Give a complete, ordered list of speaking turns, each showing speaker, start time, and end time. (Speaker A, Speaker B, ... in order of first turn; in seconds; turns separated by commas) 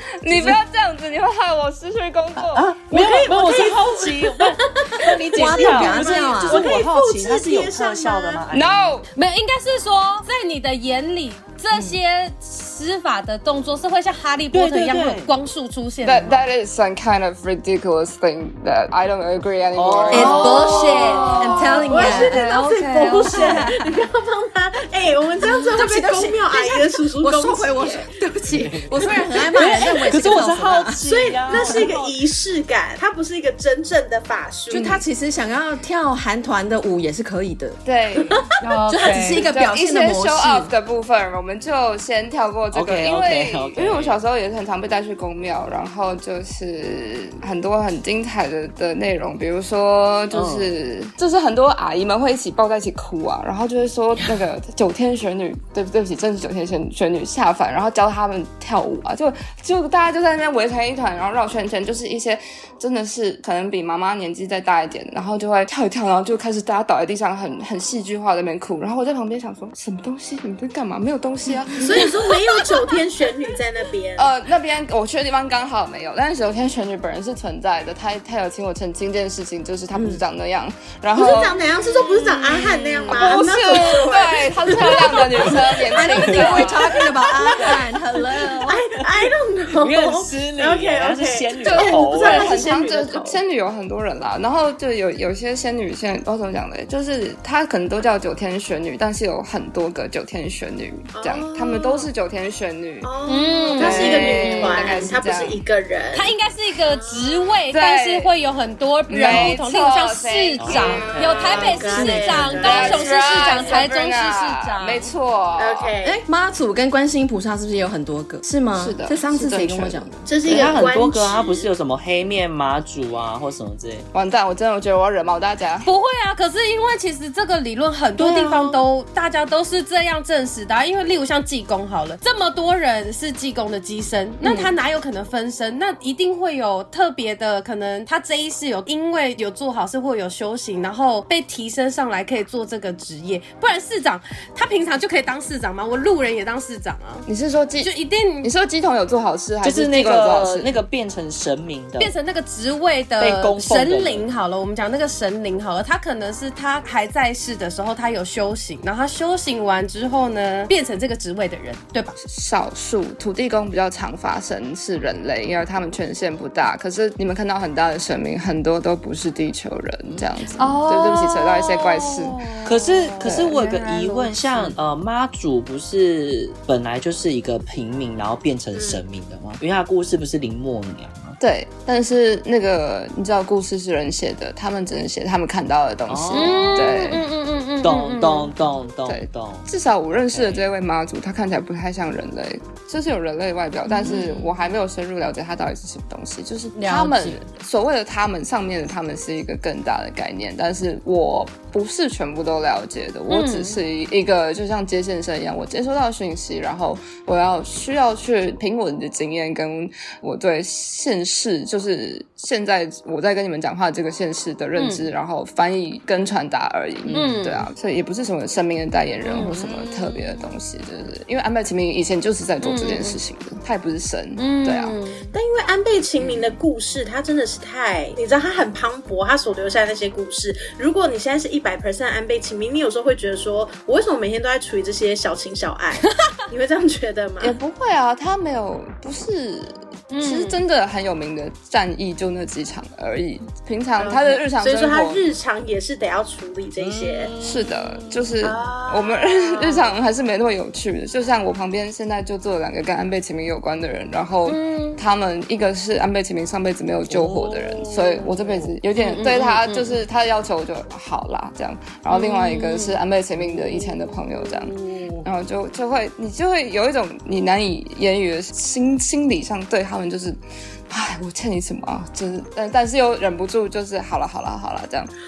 Speaker A: 0.2-2.7, Speaker B: 0.3-0.6, Speaker B: 2.4-8.9, Speaker C: 2.9-8.4, Speaker D: 5.3-6.7, Speaker A: 8.5-9.1, Speaker E: 9.2-16.4, Speaker B: 14.5-15.3, Speaker A: 16.0-23.7, Speaker B: 19.7-21.2, Speaker E: 20.1-21.6, Speaker D: 20.1-22.4, Speaker C: 21.9-28.1, Speaker D: 23.1-23.9, Speaker D: 25.7-31.9, Speaker B: 28.5-32.2, Speaker C: 31.0-35.0, Speaker D: 34.7-37.8, Speaker A: 37.8-72.9, Speaker E: 38.6-39.5, Speaker D: 38.9-40.7, Speaker B: 42.7-44.2, Speaker B: 50.3-50.7, Speaker C: 71.8-74.3, Speaker A: 74.2-81.7, Speaker D: 79.9-80.2, Speaker C: 81.1-87.8, Speaker A: 82.2-87.0, Speaker E: 82.5-83.4, Speaker D: 85.9-88.8, Speaker B: 86.2-86.7, Speaker C: 88.5-93.4, Speaker B: 89.1-92.5, Speaker A: 91.6-103.1, Speaker C: 101.1-102.1, Speaker C: 103.0-106.3, Speaker E: 103.2-105.1, Speaker A: 103.7-105.6, Speaker E: 106.1-115.1, Speaker C: 106.9-107.4, Speaker A: 107.7-108.3, Speaker A: 109.1-111.1, Speaker B: 110.6-112.5, Speaker C: 110.7-113.8, Speaker A: 112.0-115.9, Speaker C: 115.6-116.2, Speaker D: 116.0-120.3, Speaker A: 118.8-120.0, Speaker C: 120.2-121.7, Speaker B: 120.4-124.1, Speaker A: 124.1-125.9, Speaker E: 125.8-147.3, Speaker D: 128.2-128.8, Speaker A: 147.2-150.7, Speaker E: 147.8-148.5, Speaker B: 149.6-152.1, Speaker E: 152.0-162.1, Speaker B: 153.2-154.3, Speaker A: 162.2-172.5, Speaker E: 170.6-174.7, Speaker B: 172.6-181.4, Speaker A: 173.2-173.5, Speaker C: 178.7-179.0, Speaker A: 181.4-187.3, Speaker B: 186.1-186.9, Speaker E: 186.3-188.5, Speaker B: 187.8-189.7, Speaker A: 189.1-225.0, Speaker B: 190.3-190.7, Speaker E: 193.9-194.4, Speaker E: 196.7-197.4, Speaker E: 203.3-203.8, Speaker E: 214.8-215.1, Speaker E: 217.1-217.7, Speaker E: 219.2-219.7, Speaker E: 222.6-223.2, Speaker E: 224.4-225.3, Speaker C: 225.3-237.5, Speaker E: 236.0-236.4, Speaker A: 237.4-245.3, Speaker E: 240.1-240.6, Speaker C: 244.0-247.3, Speaker B: 246.8-248.4, Speaker A: 247.4-270.4, Speaker C: 248.4-249.9, Speaker E: 254.4-255.0, Speaker B: 257.1-258.0, Speaker E: 258.9-260.0, Speaker E: 262.1-263.0, Speaker E: 263.7-265.2, Speaker A: 270.9-275.1